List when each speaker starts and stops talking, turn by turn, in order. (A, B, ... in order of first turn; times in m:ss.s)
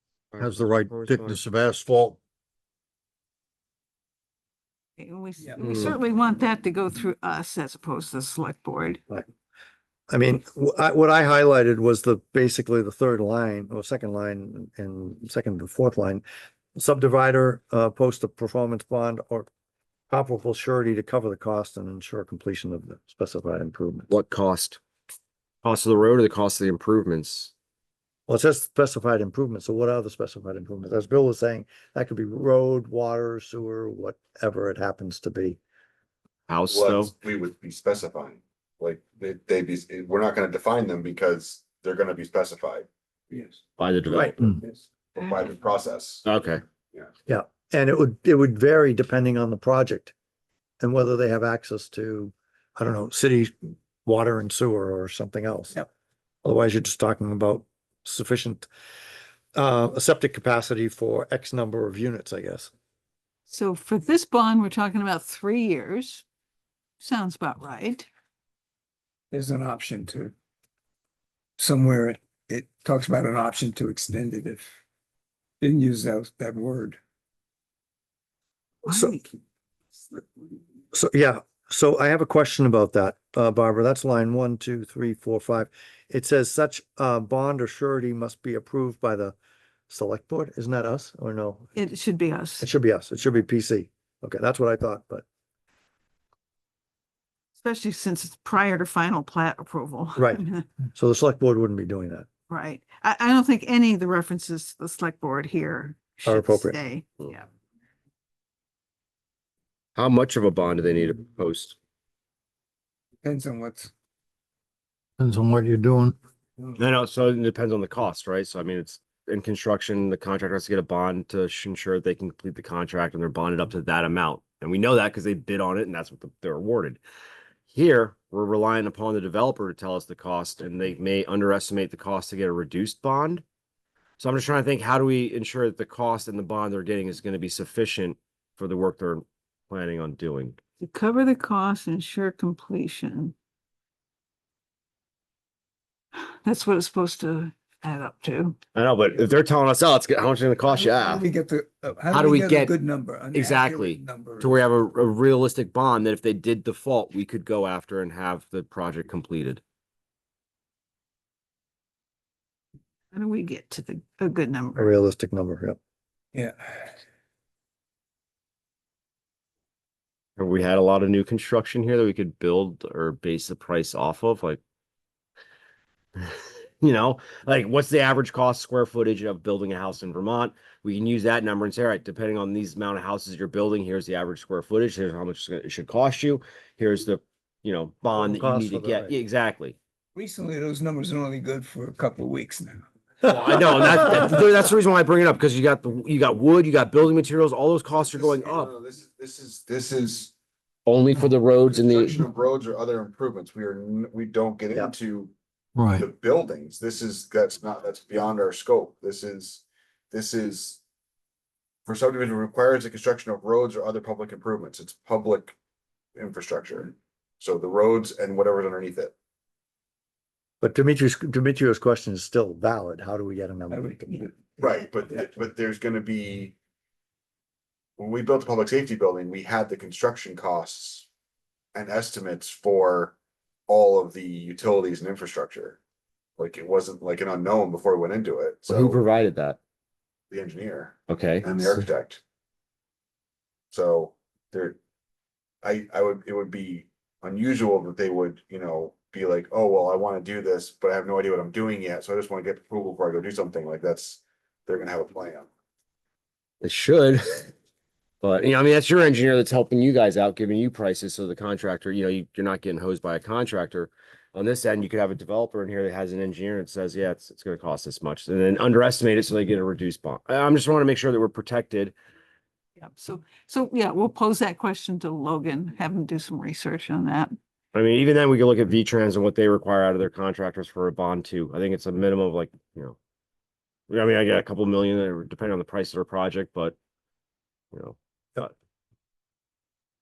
0:00.4-0:02.2 A
0:00.4-0:01.4 B
0:00.4-0:01.9 C
0:05.0-0:09.0 D
0:05.4-0:05.8 E
0:10.1-0:16.2 C
0:16.8-0:19.5 C
0:20.1-0:24.1 C
0:24.1-0:24.8 B
0:25.6-0:27.5 B
0:28.3-0:35.6 C
0:36.5-0:37.1 B
0:36.7-0:42.9 F
0:43.3-0:43.6 E
0:43.8-0:44.6 B
0:44.1-0:44.6 C
0:45.1-0:46.2 F
0:46.2-0:46.6 B
0:47.3-0:50.1 C
0:50.8-0:55.8 C
0:56.4-0:58.7 C
0:59.6-1:02.7 C
1:03.5-1:06.2 D
1:07.0-1:08.1 D
1:09.3-1:10.3 E
1:11.6-1:14.7 E
1:15.6-1:17.0 E
1:18.8-1:19.2 D
1:18.9-1:19.2 C
1:20.9-1:29.4 C
1:29.9-1:31.8 C
1:31.8-1:32.7 D
1:32.6-1:35.2 C
1:37.6-1:40.7 D
1:40.2-1:40.4 C
1:40.9-1:42.3 C
1:42.5-1:47.5 D
1:46.3-1:46.8 C
1:50.0-1:51.8 B
1:53.2-1:53.9 E
1:55.2-1:56.1 A
1:56.8-2:07.0 B
2:07.7-2:13.4 B
2:14.2-2:20.6 B
2:20.8-2:23.3 D
2:26.2-2:28.6 D
2:28.8-2:31.3 B
2:30.8-2:34.6 E
2:32.1-2:32.7 B
2:33.3-2:39.6 B
2:43.1-2:44.9 D
2:44.8-2:45.8 C
2:46.3-2:46.9 E
2:50.4-2:54.6 B
2:56.2-3:09.8 B
3:08.1-3:09.2 C
3:10.2-3:12.8 E
3:13.2-3:18.7 B
3:18.1-3:20.3 F
3:20.9-3:22.2 B
3:21.7-3:25.3 F
3:26.0-3:30.8 F
3:31.9-3:35.6 F
3:36.2-3:39.1 F
3:40.6-3:43.9 C
3:43.7-3:45.3 E
3:44.6-3:46.6 F
3:48.0-3:51.1 F
3:51.7-3:53.1 F
3:53.7-3:55.8 F
3:56.4-3:59.0 F
3:58.7-3:59.6 B
4:00.3-4:02.2 F
4:01.1-4:01.8 B
4:03.7-4:04.8 F
4:05.6-4:15.5 F
4:16.6-4:17.5 B
4:18.2-4:31.9 B
4:32.8-4:37.3 D
4:37.7-4:43.0 B
4:43.9-4:46.8 B
4:47.7-4:48.5 B